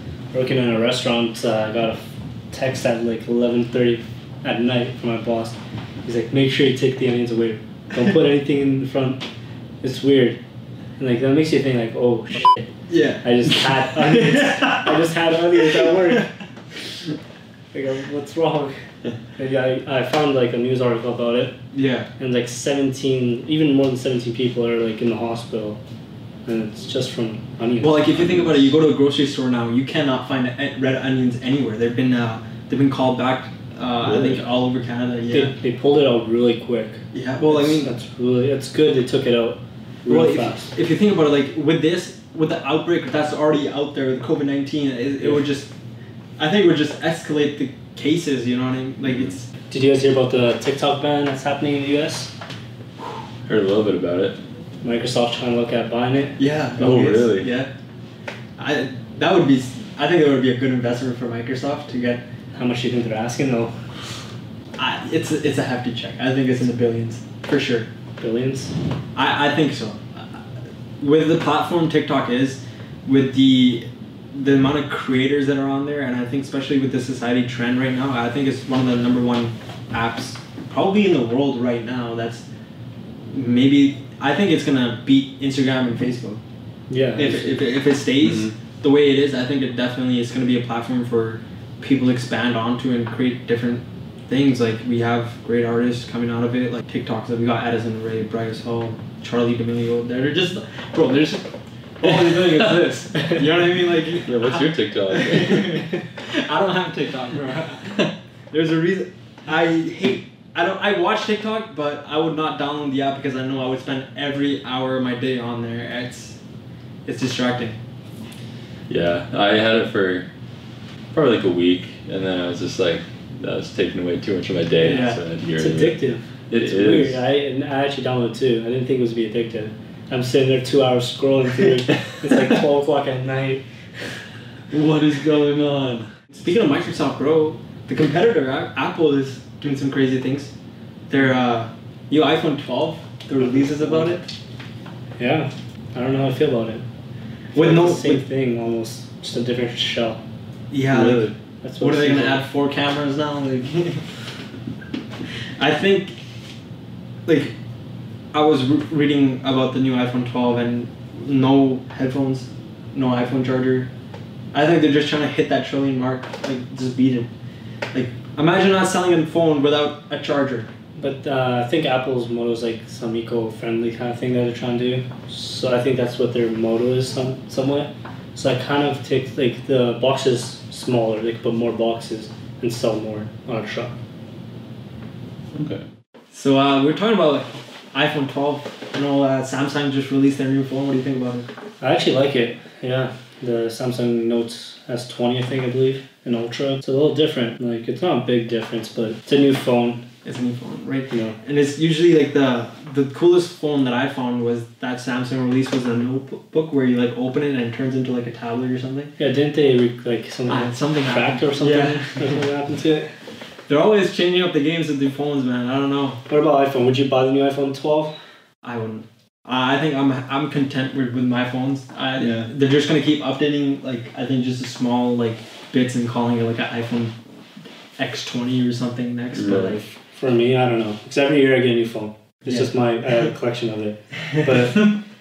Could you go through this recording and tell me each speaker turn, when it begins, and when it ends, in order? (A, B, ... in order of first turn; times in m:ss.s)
0:00.3-0:09.2 A
0:09.8-0:10.4 A
0:11.0-0:12.7 A
0:12.9-0:15.0 B
0:13.2-0:16.3 A
0:15.6-0:16.2 B
0:17.7-0:18.8 A
0:19.4-0:21.6 A
0:21.7-0:22.1 B
0:22.2-0:25.8 A
0:26.4-0:28.2 A
0:27.8-0:35.5 B
0:28.1-0:28.7 C
0:34.0-0:34.4 C
0:35.3-0:40.7 A
0:37.1-0:37.9 B
0:40.1-0:45.7 B
0:46.4-0:49.4 B
0:49.0-0:49.3 C
0:49.7-0:52.3 A
0:53.5-0:54.4 C
0:54.8-0:56.4 A
0:56.4-0:57.7 B
0:56.8-0:57.5 C
0:58.6-1:02.2 B
1:02.5-1:03.7 A
1:04.8-1:07.9 B
1:08.2-1:08.7 A
1:09.1-1:10.2 B
1:11.0-1:22.4 B
1:23.3-1:26.4 B
1:26.9-1:27.5 A
1:27.2-1:41.4 B
1:28.2-1:28.5 C
1:42.0-1:56.4 B
1:44.2-1:45.8 C
1:57.0-1:57.8 B
1:58.9-2:00.3 C
2:01.1-2:07.2 C
2:04.8-2:05.2 B
2:05.5-2:13.6 A
2:14.7-2:16.1 C
2:16.4-2:20.5 B
2:21.1-2:24.3 B
2:23.4-2:24.1 A
2:25.2-2:26.8 A
2:27.5-2:28.2 B
2:27.5-2:30.2 A
2:30.7-2:34.1 B
2:30.9-2:31.3 C
2:31.6-2:32.4 A
2:35.6-2:36.2 B
2:37.2-2:37.5 B
2:38.3-2:43.9 B
2:44.5-2:47.3 B
2:47.9-2:50.7 B
2:51.0-3:03.9 A
3:05.5-3:05.8 C
3:06.3-3:11.5 B
3:11.8-3:20.0 A
3:20.2-3:29.1 B
3:21.1-3:21.4 A
3:29.2-3:33.1 A
3:30.5-3:32.4 B
3:33.7-3:36.2 B
3:36.3-3:38.1 A
3:38.6-3:47.1 B
3:42.2-3:42.5 C
3:48.0-3:49.9 B
3:49.3-3:49.8 C
3:50.1-3:55.0 A